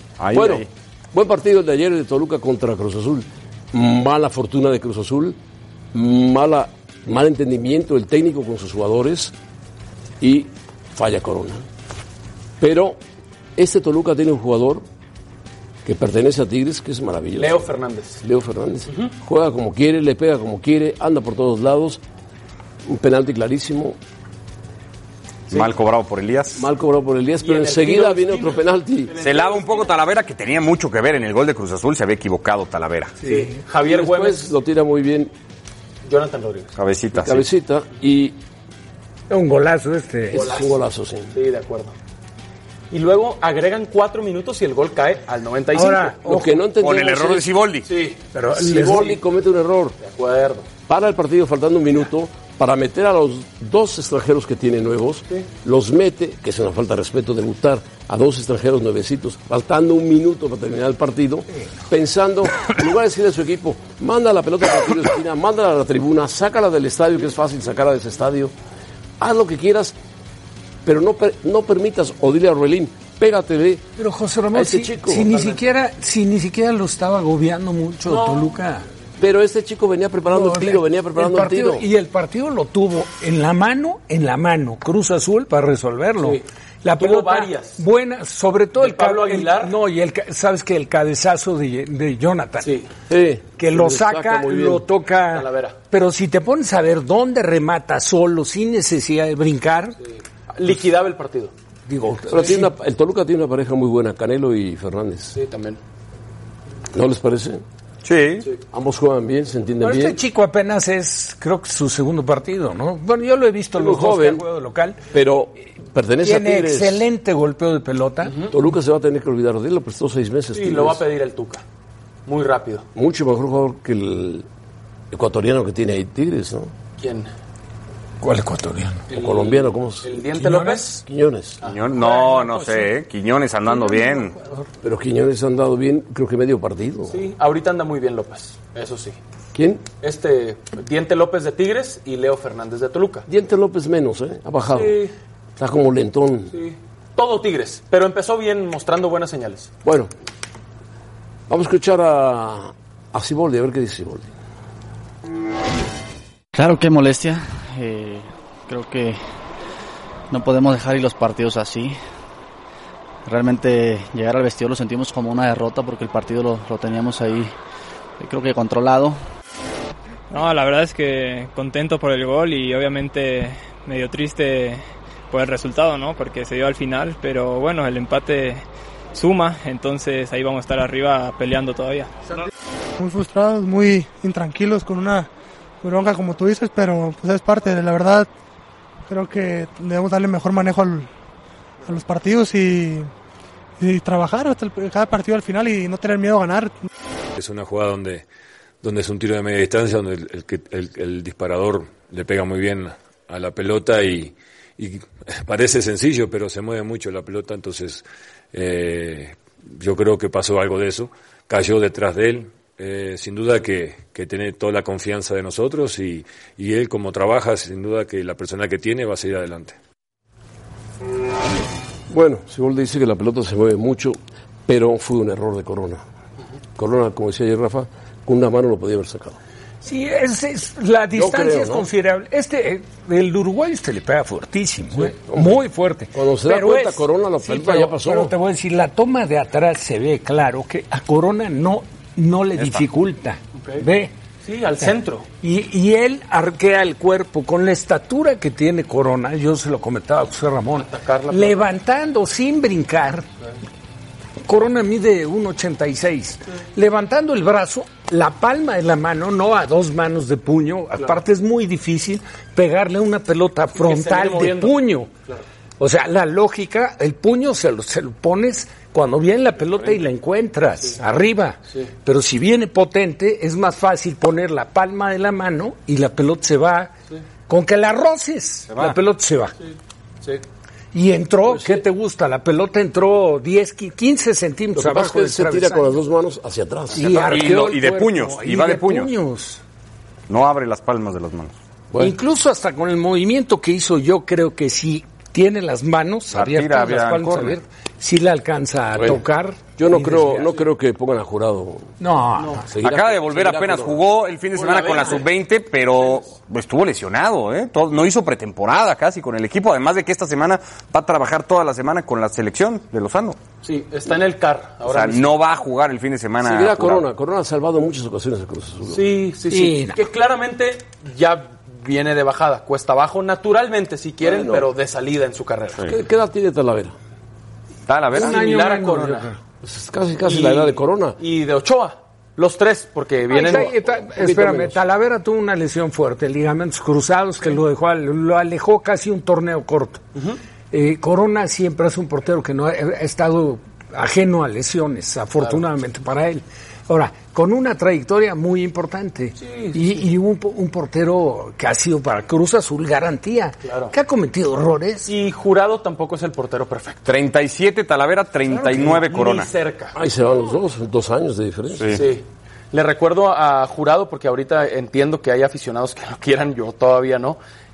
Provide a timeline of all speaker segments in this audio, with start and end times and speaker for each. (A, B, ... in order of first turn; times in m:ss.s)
0:00.2-0:00.7 A
0:00.3-0:05.4 B
0:05.9-0:09.3 B
0:10.2-0:11.6 B
0:12.6-0:13.0 B
0:13.6-0:14.8 B
0:15.8-0:17.7 B
0:17.4-0:18.2 C
0:18.2-0:22.0 B
0:22.8-0:24.0 B
0:25.5-0:26.6 A
0:26.5-0:29.1 B
0:27.4-0:30.0 C
0:29.2-0:33.2 A
0:33.2-0:33.5 D
0:33.2-0:34.5 C
0:33.8-0:35.3 B
0:36.0-0:36.7 C
0:36.8-0:37.5 A
0:37.1-0:38.4 B
0:39.3-0:40.5 D
0:40.3-0:41.3 B
0:40.3-0:40.8 C
0:41.3-0:41.9 C
0:42.9-0:46.2 C
0:45.7-0:46.6 D
0:46.2-0:47.5 B
0:46.8-0:47.9 A
0:47.8-0:49.2 C
0:48.3-0:49.1 D
0:48.5-0:50.0 B
0:50.0-0:50.8 C
0:50.8-1:08.5 B
1:09.2-1:09.9 B
1:10.8-1:13.9 B
1:14.0-1:18.9 D
1:14.5-1:15.4 B
1:18.0-1:18.5 C
1:19.2-1:21.8 B
1:20.3-1:32.8 D
1:27.0-1:27.8 C
1:28.8-1:29.7 C
1:32.6-1:32.9 C
1:33.1-1:34.9 B
1:33.6-1:40.0 D
1:35.3-1:35.8 C
1:40.5-1:41.5 C
1:41.9-1:42.7 D
1:42.3-1:45.3 B
1:45.3-1:45.8 C
1:46.9-1:47.6 B
1:48.0-1:48.5 A
1:48.7-1:50.2 B
1:49.8-1:55.0 D
1:53.8-1:54.4 B
1:55.1-1:57.0 B
1:56.2-1:58.4 D
1:58.5-2:01.0 B
2:00.5-2:01.6 C
2:02.2-2:02.8 C
2:02.9-2:04.5 B
2:05.1-2:06.7 B
2:07.0-2:07.3 C
2:08.2-2:09.1 D
2:09.1-2:11.0 C
2:09.1-2:11.6 B
2:10.3-2:10.9 D
2:11.6-2:12.6 C
2:11.6-2:14.3 A
2:14.8-2:17.2 B
2:17.1-2:19.2 C
2:19.5-2:19.9 B
2:20.0-2:23.2 C
2:23.3-2:25.0 B
2:24.7-2:25.1 C
2:25.6-2:26.5 B
2:26.5-2:29.7 C
2:29.8-2:30.1 B
2:31.5-2:34.3 B
2:36.5-2:39.2 E
2:40.3-2:42.0 E
2:43.2-2:47.5 E
2:48.2-2:49.2 E
2:50.3-3:02.1 F
3:03.0-3:05.3 G
3:05.8-3:08.3 G
3:09.1-3:11.1 G
3:11.8-3:13.1 G
3:13.8-3:16.9 G
3:17.3-3:18.2 H
3:18.8-3:39.8 H
3:42.1-3:46.0 B
3:46.8-3:49.4 B
3:49.8-4:04.1 D
3:51.1-3:51.9 B
3:54.9-3:58.3 B
4:02.6-4:02.8 A
4:04.4-4:05.3 C
4:04.8-4:13.3 D
4:10.7-4:11.6 C
4:14.4-4:25.1 D
4:23.7-4:25.4 C
4:25.8-4:36.9 D
4:37.5-4:39.5 D
4:38.7-4:39.0 A
4:40.9-4:46.0 D
4:41.5-4:41.8 B
4:44.7-4:47.4 B
4:46.9-4:49.6 D
4:47.0-4:49.1 A
4:50.3-4:51.5 A
4:52.0-5:00.5 D
4:56.3-4:57.6 A
4:59.8-5:01.9 B
5:02.0-5:02.7 D
5:02.6-5:04.0 B
5:02.8-5:13.4 A
5:04.5-5:05.2 C
5:13.6-5:15.4 C
5:14.8-5:17.1 A
5:16.4-5:19.1 B
5:18.9-5:25.8 C
5:19.5-5:20.0 D
5:24.2-5:24.7 B
5:25.8-5:26.9 B
5:27.9-5:28.4 A
5:28.1-5:29.4 D
5:28.2-5:29.3 C
5:29.6-5:31.2 B
5:30.2-5:33.7 C
5:33.3-5:40.0 D
5:33.4-5:34.8 B
5:40.7-5:55.1 D
5:49.4-5:49.9 C
5:53.6-5:53.9 C
5:55.0-5:57.0 C
5:57.0-5:59.5 A
5:58.5-5:59.9 C
5:59.9-6:02.0 B
6:01.8-6:02.0 A
6:01.9-6:07.4 C